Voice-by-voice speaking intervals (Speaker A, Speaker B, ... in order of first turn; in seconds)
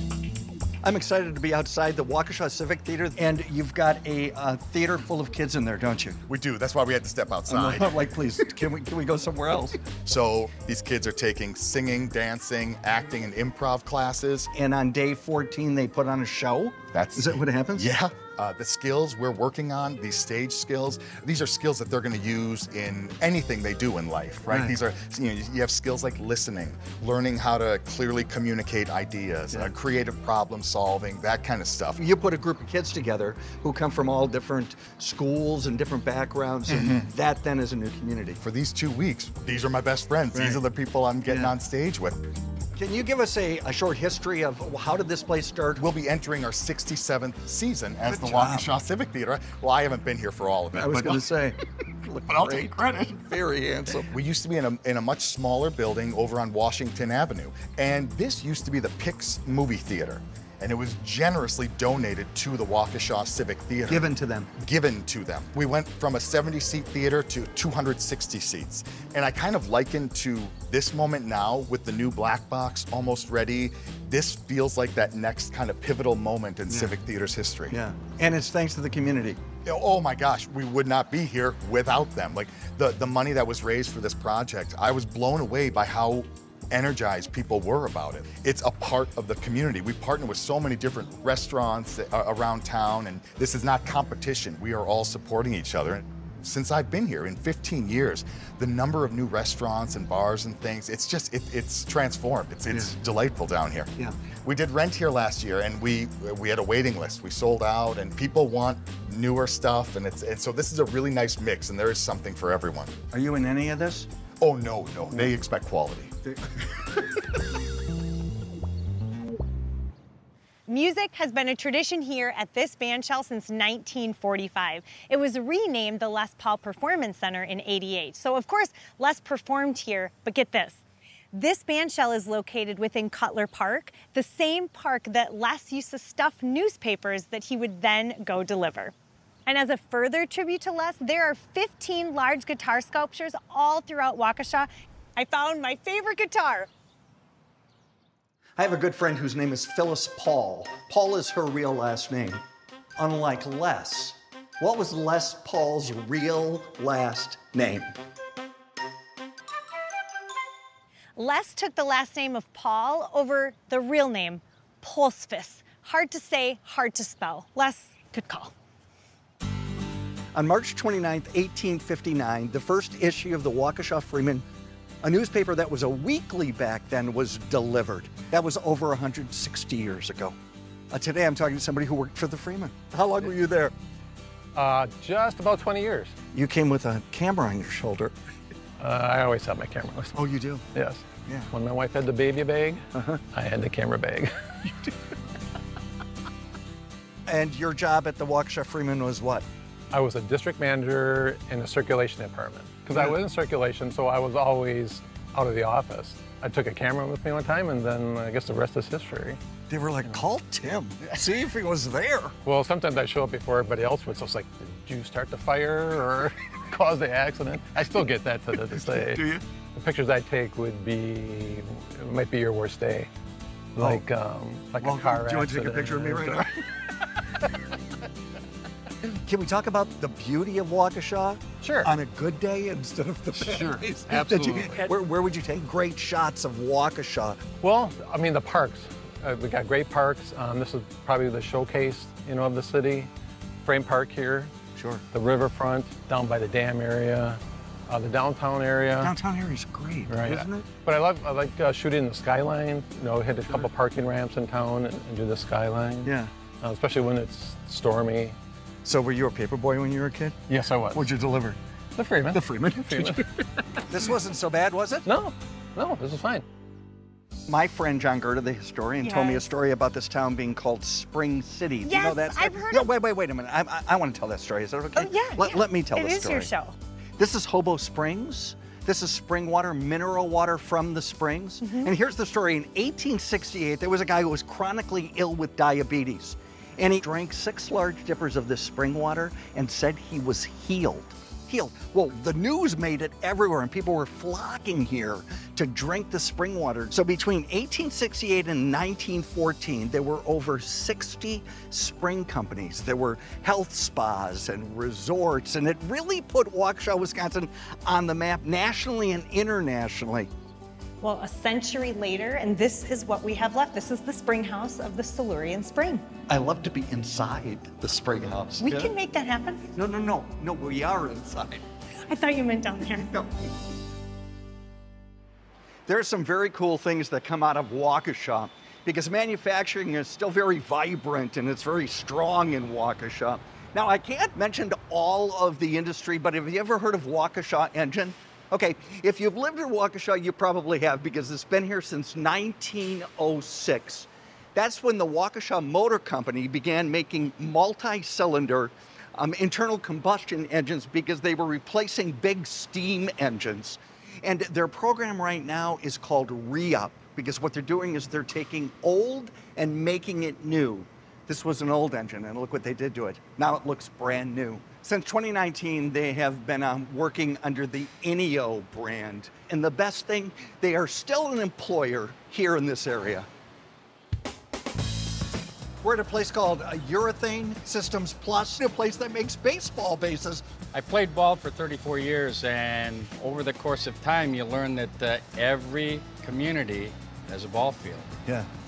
Speaker A: 0.8-6.2, 7.5-9.8, 14.5-17.9, 24.5-24.8, 32.0-38.4, 40.3-40.6, 42.8-45.8, 48.1-48.7, 50.7-54.1, 63.9-64.5, 77.7-79.4, 102.7-102.9, 113.1-114.1, 148.6-152.4, 153.0-157.9, 170.3-174.4, 175.0-180.4, 180.9-183.7, 186.3-188.1, 190.1-190.6, 191.2-191.5, 192.9-193.2, 197.3-199.4, 202.9-203.2, 209.7-212.3, 218.9-219.4, 223.8-224.0, 224.8-226.5, 229.2-237.4, 244.8-245.0, 249.0-250.7, 256.0-256.3, 258.8-261.6, 262.3-263.2, 263.9-265.1, 267.5-276.5, 277.2-310.3, 316.3-318.9, 319.7-321.6, 325.9-373.3, 375.8-380.4
Speaker B: 6.3-8.0, 10.0-14.5, 16.9-32.0, 36.7-37.1, 38.4-42.2, 45.8-51.2, 52.4-52.9, 54.1-77.8, 79.6-112.9, 114.4-116.1
Speaker C: 120.7-138.9, 139.4-146.7, 161.2-168.5, 269.0-269.4, 271.8-272.9, 274.9-276.8, 281.6-281.9, 311.0-316.0, 318.6-319.6, 322.1-323.1
Speaker D: 184.5-186.1, 188.8-190.2, 190.7-194.3, 199.9-209.4, 212.4-223.1, 223.8-226.4, 234.1-234.7, 237.6-243.1, 243.6-244.5, 245.1-249.1, 250.1-258.4, 260.5-261.1, 262.0-263.2, 265.1-266.4
Speaker E: 234.4-234.7, 380.7-388.1